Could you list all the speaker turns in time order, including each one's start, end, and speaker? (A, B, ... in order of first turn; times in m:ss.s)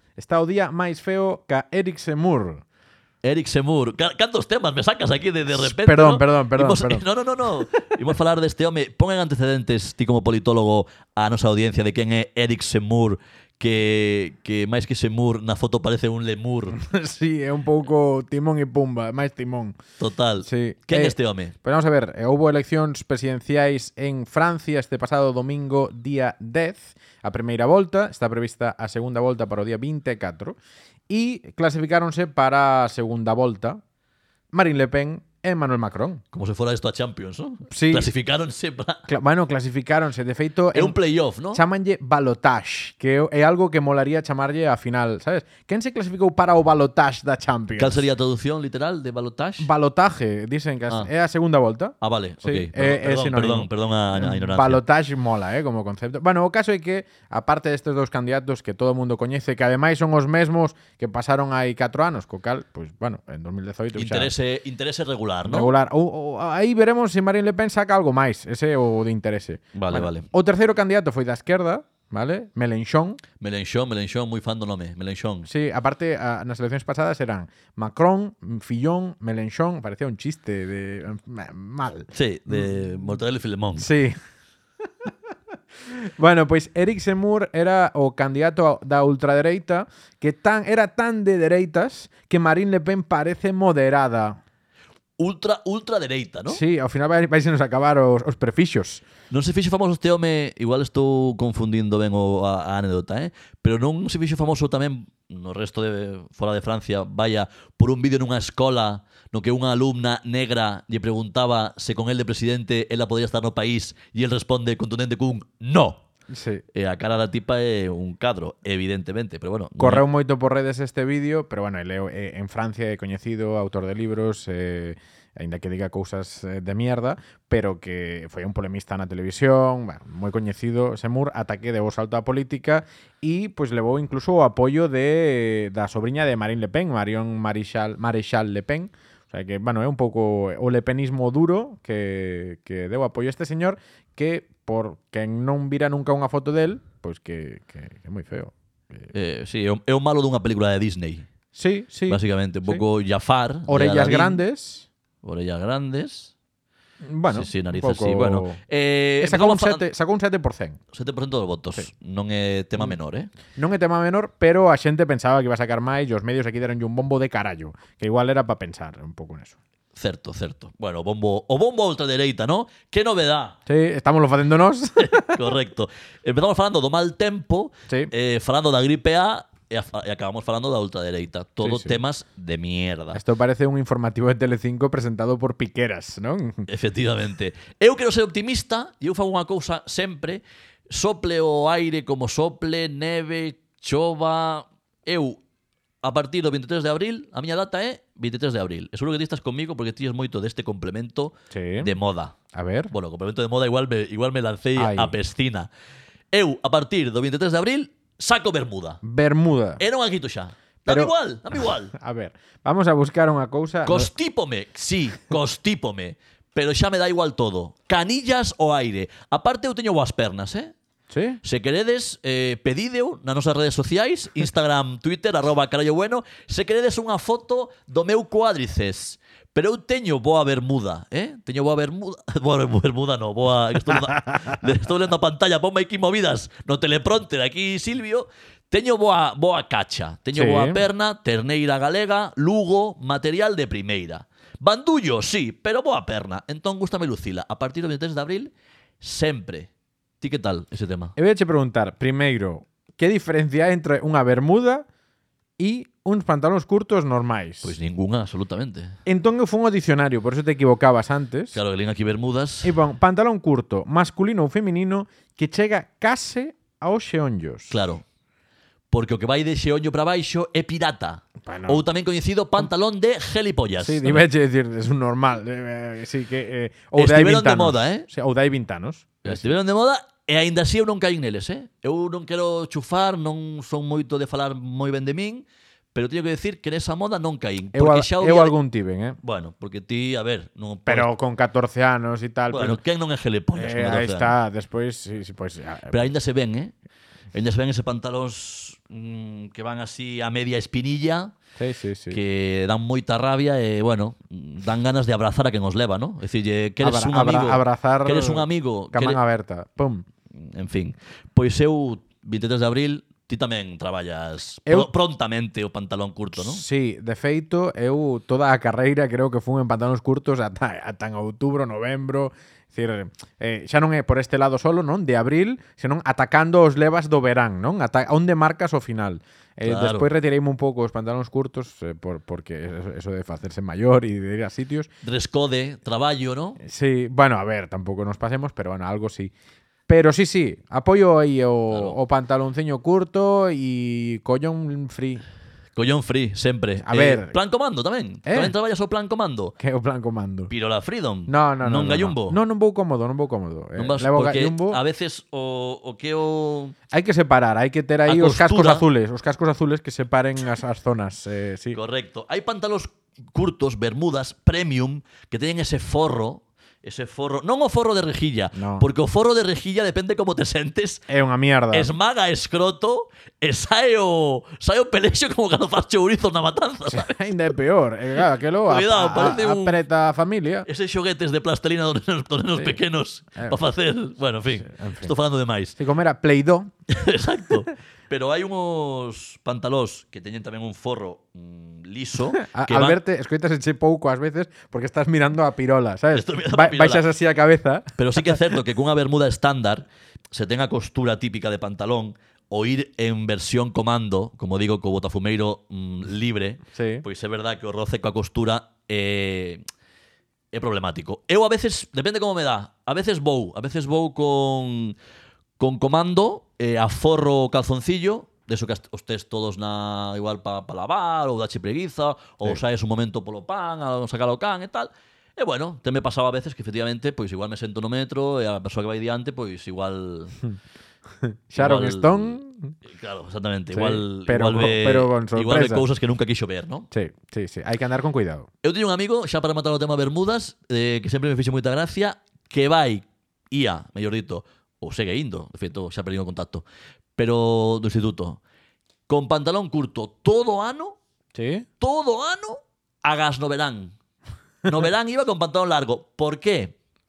0:00.2-0:02.6 A
0:03.2-0:16.8 B
0:05.5-0:07.0 A
0:16.7-0:19.8 A
0:20.0-0:21.5 B
0:20.4-0:30.6 A
0:31.1-0:33.8 A
0:34.5-0:36.2 A
0:36.3-0:39.1 B
0:37.7-0:38.1 A
0:39.1-0:41.0 A
0:40.7-0:41.6 B
0:41.5-0:48.0 A
0:47.8-0:49.7 B
0:49.6-1:04.3 A
0:52.0-0:54.8 B
1:04.0-1:05.7 B
1:05.4-1:13.2 A
1:09.7-1:10.3 B
1:13.4-1:15.5 B
1:15.5-1:23.1 A
1:22.1-1:23.9 B
1:23.8-1:24.2 A
1:25.9-1:34.4 A
1:35.2-1:36.6 B
1:36.5-1:39.0 A
1:39.3-1:56.0 B
1:56.3-1:56.6 A
1:56.7-2:00.0 B
1:59.8-2:29.1 A
2:29.1-2:31.3 B
2:31.6-2:32.8 A
2:32.1-2:34.4 B
2:33.7-2:34.9 A
2:35.2-2:36.3 B
2:37.0-2:38.6 A
2:37.3-2:39.8 B
2:39.2-2:40.8 A
2:40.9-2:43.3 B
2:43.6-2:49.6 A
2:50.0-2:53.6 B
2:53.7-2:55.4 A
2:55.0-3:03.2 B
3:01.6-3:02.0 A
3:03.1-3:06.7 A
3:06.7-3:15.4 B
3:16.0-3:22.4 B
3:21.5-3:21.9 A
3:22.5-3:22.9 A
3:22.9-3:25.7 B
3:24.8-3:25.2 A
3:26.3-3:29.0 B
3:29.0-3:29.8 A
3:29.8-3:31.9 B
3:30.9-3:31.1 A
3:31.9-3:34.1 A
3:33.9-3:40.7 B
3:41.1-3:41.4 A
3:41.4-4:09.7 B
4:00.3-4:00.8 A
4:10.2-4:11.1 B
4:11.2-4:14.9 A
4:15.6-4:17.7 A
4:17.6-4:19.0 B
4:19.1-4:21.6 A
4:21.5-4:22.7 B
4:22.6-4:27.8 A
4:27.7-4:28.0 B
4:28.9-4:34.2 B
4:31.4-4:31.8 A
4:33.8-4:39.5 A
4:37.0-4:38.1 B
4:39.2-4:48.6 B
4:47.7-4:49.2 A
4:49.2-4:51.1 B
4:50.9-4:52.8 A
4:52.5-4:54.4 B
4:53.6-4:56.1 A
4:55.9-4:56.7 B
4:57.3-5:01.3 B
5:01.6-5:02.2 A
5:02.1-5:09.2 B
5:06.8-5:10.0 A
5:10.3-5:16.6 B
5:16.4-5:34.9 A
5:29.6-5:30.1 B
5:35.0-5:36.6 B
5:36.6-5:39.3 A
5:39.9-5:45.2 A
5:41.7-5:42.0 B
5:45.8-5:49.6 B
5:46.8-5:47.4 A
5:48.3-5:48.5 A
5:49.6-5:50.5 A
5:50.5-5:52.4 B
5:51.3-5:54.8 A
5:53.8-5:56.8 B
5:56.9-6:01.8 A
5:58.1-5:58.8 B
6:01.7-6:11.1 B
6:08.6-6:08.9 A
6:11.1-6:11.9 A
6:11.7-6:17.3 B
6:16.9-6:20.7 A
6:18.7-6:19.8 B
6:20.7-6:25.8 B
6:24.6-6:25.1 A
6:25.8-6:26.7 A
6:26.9-6:33.0 B
6:32.3-6:38.4 A
6:36.1-6:37.1 B
6:38.0-6:49.6 B
6:46.7-6:47.0 A
6:50.5-6:55.0 B
6:55.6-7:10.4 B
7:11.2-7:12.8 A
7:11.6-7:16.9 B
7:13.7-7:15.8 A
7:16.9-7:18.5 A
7:18.6-7:26.6 B
7:27.2-7:28.4 B
7:29.1-7:31.0 B
7:31.3-7:31.7 A
7:31.8-7:33.9 B
7:34.6-7:36.8 B